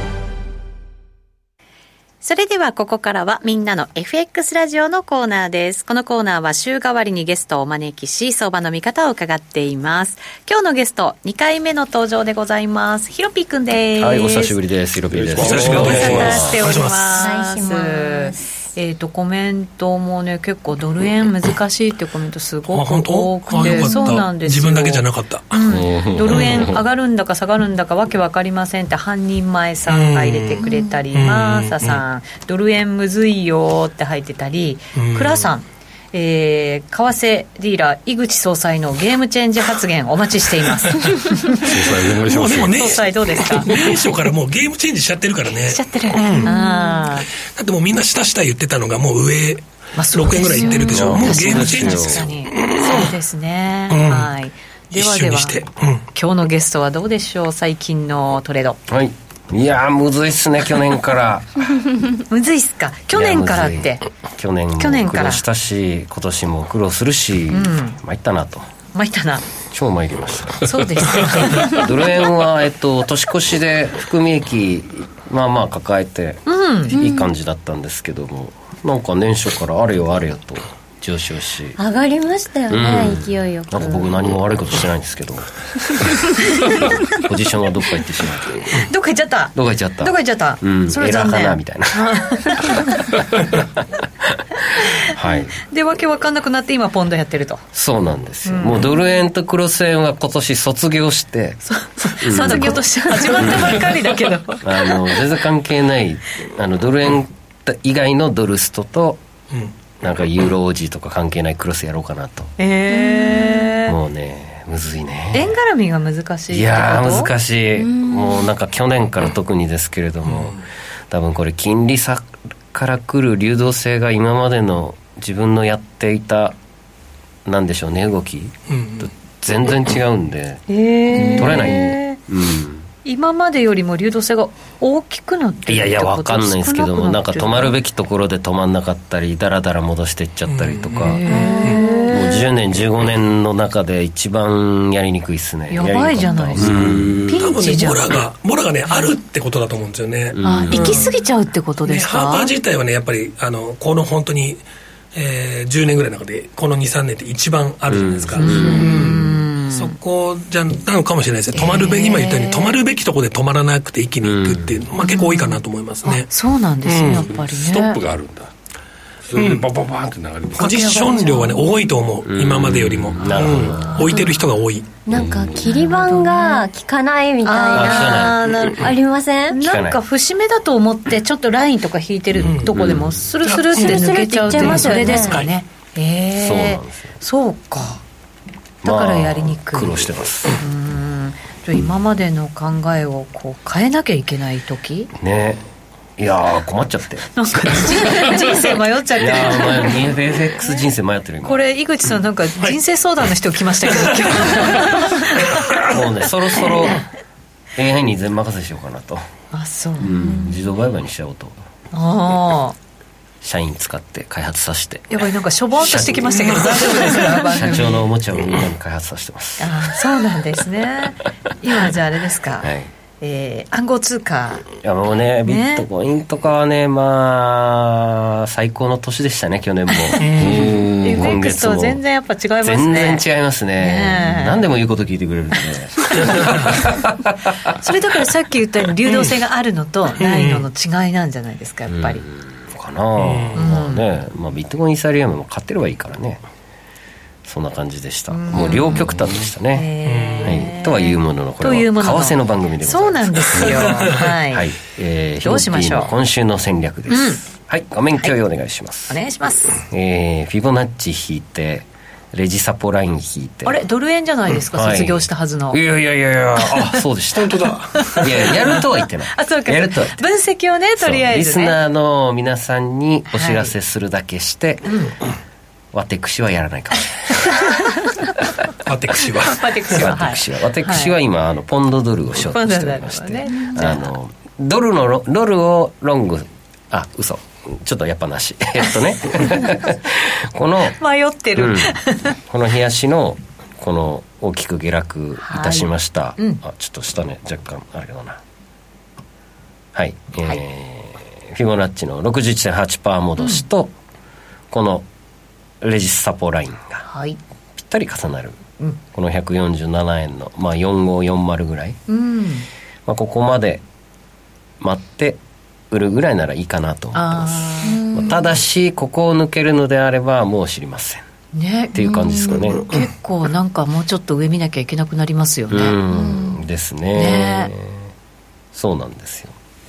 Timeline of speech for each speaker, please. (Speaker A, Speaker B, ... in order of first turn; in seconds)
Speaker A: 2.2-14.6, 15.5-41.9, 42.6-44.0, 45.6-47.3, 50.0-55.6, 56.1-58.8, 62.2-64.0, 64.8-65.4, 67.5-68.0, 68.9-69.5, 70.6-71.9, 76.5-77.0, 86.6-86.9, 88.7-93.0, 95.6-97.6, 98.5-98.9, 101.7-105.1, 112.6-114.0, 115.3-117.3, 130.7-132.2, 133.1-137.8, 141.0-142.5, 145.7-148.1, 150.4-152.5, 158.4-160.0, 161.5-162.8, 165.0-168.0, 170.6-171.7, 175.8-176.7, 177.4-178.9, 179.5-188.0, 188.8-190.0, 190.6-195.1, 197.3-200.1, 201.4-205.7, 209.5-210.4, 211.9-212.8, 215.1-218.1, 219.6-224.7, 225.5-225.9, 229.9-233.2, 233.8-234.6, 236.1-236.6, 237.8-242.2, 243.6-244.0, 248.3-249.1, 249.7-254.7, 255.4-256.1, 257.1-257.4, 259.1-259.8, 263.6-265.8, 268.0-271.8, 273.3-273.7, 274.9-275.1, 277.6-278.2, 279.4-281.1, 282.5-284.1, 291.0-292.4, 295.4-296.6, 303.4-303.6, 307.1-307.4, 312.1-312.7, 317.1-318.0, 321.5-326.0, 327.1-327.7
Speaker B: 14.0-16.6, 50.9-52.2, 58.9-61.7, 63.1-68.7, 69.7-81.8, 82.7-85.5, 87.1-88.9, 89.5-92.9, 95.0-95.5, 97.7-101.6, 102.2-102.8, 103.4-103.8, 104.6-109.2, 110.0-112.5, 113.9-115.5, 116.5-126.6, 127.5-130.6, 131.4-132.9, 135.7-141.2, 142.1-147.2, 150.3-151.0, 157.9-159.1, 164.2-164.8, 172.2-174.1, 177.7-178.6, 179.6-180.0, 186.3-187.1, 188.8-190.6, 195.2-195.6, 196.2-197.9, 199.2-201.6, 205.8-207.0, 207.8-209.3, 210.0-211.6, 213.4-215.2, 215.8-220.0, 222.6-222.9, 224.8-230.5, 231.1-232.0, 232.6-237.8, 241.9-246.4, 247.4-249.9, 250.4-259.2, 259.9-263.8, 264.7-270.2, 271.0-275.1, 275.9-277.7, 279.9-291.0, 291.6-298.4, 299.9-303.9, 304.7-305.1, 305.8-307.1, 307.8-308.6, 309.1-312.0, 313.1-313.8, 314.8-315.4, 315.9-321.2, 321.9-322.9, 325.7-328.1, 328.7-329.6
Speaker C: 15.1-16.6, 25.7-26.8, 41.5-43.9, 131.2-132.0, 146.6-147.4, 166.9-168.5, 169.3-171.1, 173.1-173.6, 175.1-175.8, 230.4-231.3
Speaker D: 15.4-17.2, 22.7-25.6, 26.3-26.7, 29.9-32.0, 35.0-35.5, 42.2-46.5, 47.4-53.1, 53.9-54.3, 54.9-56.0, 128.7-129.1, 140.5-141.8, 147.4-151.1, 151.9-166.3, 169.4-169.7, 170.6-174.9, 182.4-182.7, 183.4-185.5, 203.9-205.9, 216.4-217.2, 230.2-230.8, 236.5-236.7, 239.1-239.3, 240.2-240.7, 243.2-243.7, 250.0-250.6, 253.6-254.3, 278.9-280.0
Speaker E: 17.1-18.4, 23.6-24.2, 46.5-47.1, 76.9-77.3, 81.8-84.2, 102.5-103.5, 112.9-113.7, 117.8-118.5, 141.3-142.2, 175.1-179.6, 183.7-185.4, 317.9-318.3, 322.1-322.6, 326.1-326.6